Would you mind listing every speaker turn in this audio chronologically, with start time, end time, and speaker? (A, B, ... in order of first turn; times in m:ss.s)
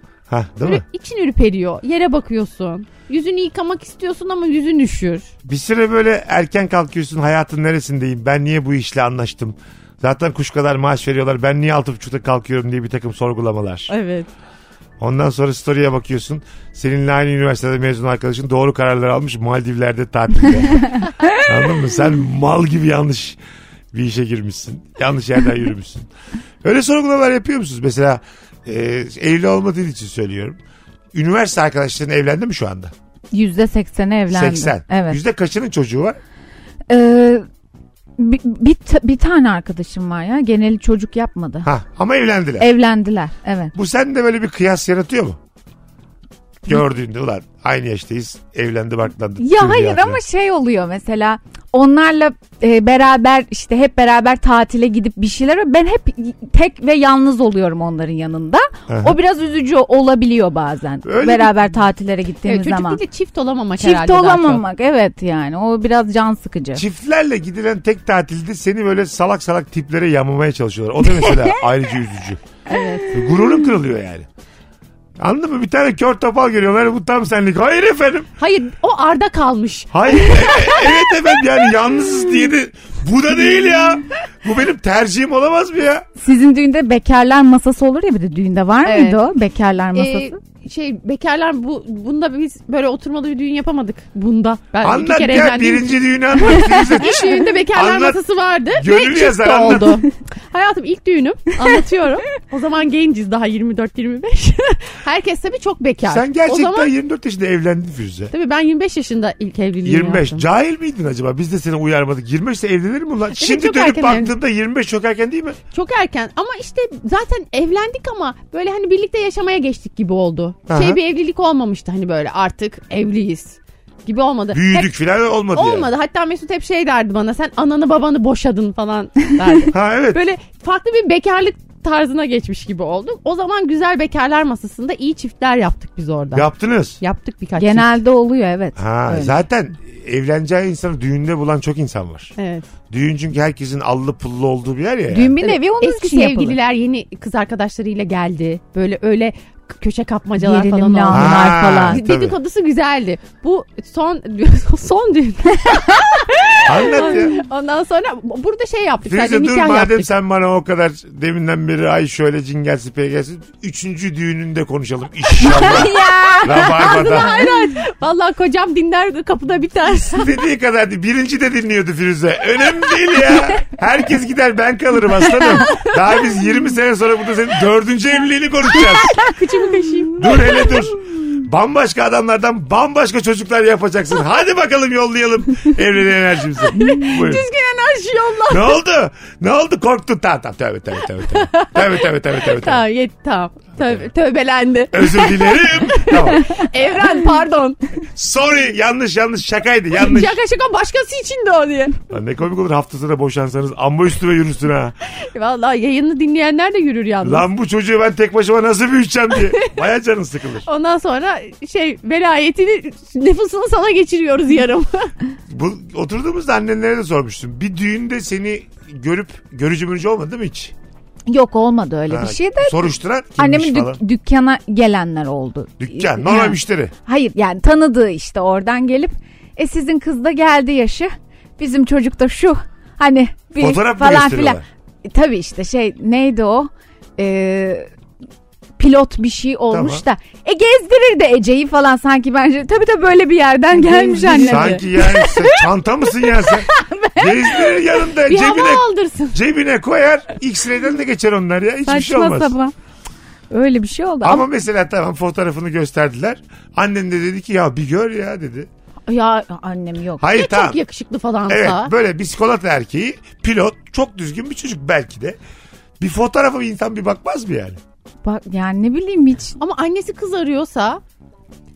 0:00.3-0:00.8 A
0:00.6-0:05.3 B
0:05.4-0:13.9 A
0:13.9-0:14.3 B
0:15.0-0:23.4 A
0:23.9-0:26.1 A
0:26.6-0:30.6 A
0:31.1-0:32.9 A
0:33.3-0:35.2 C
0:34.3-0:36.2 A
0:36.9-0:37.4 C
0:38.2-0:41.7 C
0:41.6-0:42.7 A
0:42.6-0:43.7 C
0:43.7-0:45.4 A
0:46.6-0:50.2 A
0:49.4-1:03.0 C
0:58.9-0:59.2 A
1:01.0-1:01.6 A
1:02.4-1:04.6 B
1:03.8-1:06.8 C
1:06.7-1:12.4 A
1:12.7-1:13.2 B
1:13.1-1:14.3 A
1:15.2-1:18.3 A
1:18.4-1:21.6 B
1:19.9-1:26.0 A
1:26.2-1:30.3 C
1:28.8-1:29.2 B
1:29.9-1:46.9 B
1:34.8-1:38.2 A
1:38.7-1:40.0 A
1:46.0-1:48.3 A
1:48.3-1:50.4 B
1:49.8-1:55.6 A
1:53.4-1:54.3 B
1:55.7-2:04.9 B
2:00.7-2:01.0 A
2:04.5-2:05.9 A
2:05.5-2:16.5 B
2:09.7-2:10.2 A
2:16.3-2:17.0 A
2:17.0-2:17.9 B
2:17.6-2:19.4 C
2:18.8-2:22.3 A
2:22.4-2:22.6 B
2:22.9-2:25.4 A
2:25.1-2:26.6 C
2:25.4-2:40.1 B
2:30.4-2:32.0 C
2:31.1-2:32.4 A
2:36.6-2:37.4 A
2:39.1-2:47.4 A
2:45.4-2:50.3 B
2:45.4-2:47.5 C
2:50.1-2:59.2 A
2:58.7-3:00.8 B
3:00.2-3:07.4 A
3:06.7-3:08.8 B
3:08.5-3:12.8 A
3:11.3-3:17.8 B
3:14.9-3:16.5 A
3:18.1-3:20.4 A
3:19.9-3:22.0 B
3:22.1-3:24.9 A
3:25.0-3:27.4 B
3:27.2-3:30.6 A
3:30.6-3:35.1 B
3:35.5-3:40.7 A
3:41.3-3:57.9 C
3:42.1-3:44.0 A
3:45.8-3:46.9 A
3:53.6-3:54.6 A
3:58.8-4:05.6 C
3:59.7-4:00.0 A
4:03.7-4:04.8 B
4:04.4-4:12.5 A
4:06.4-4:07.3 C
4:08.2-4:09.4 B
4:11.8-4:12.7 C
4:13.5-4:14.4 C
4:14.2-4:18.7 A
4:19.1-4:20.2 C
4:20.2-4:20.8 A
4:20.3-4:21.9 B
4:21.5-4:25.4 A
4:26.0-4:27.8 A
4:28.2-4:29.6 C
4:29.6-4:31.0 B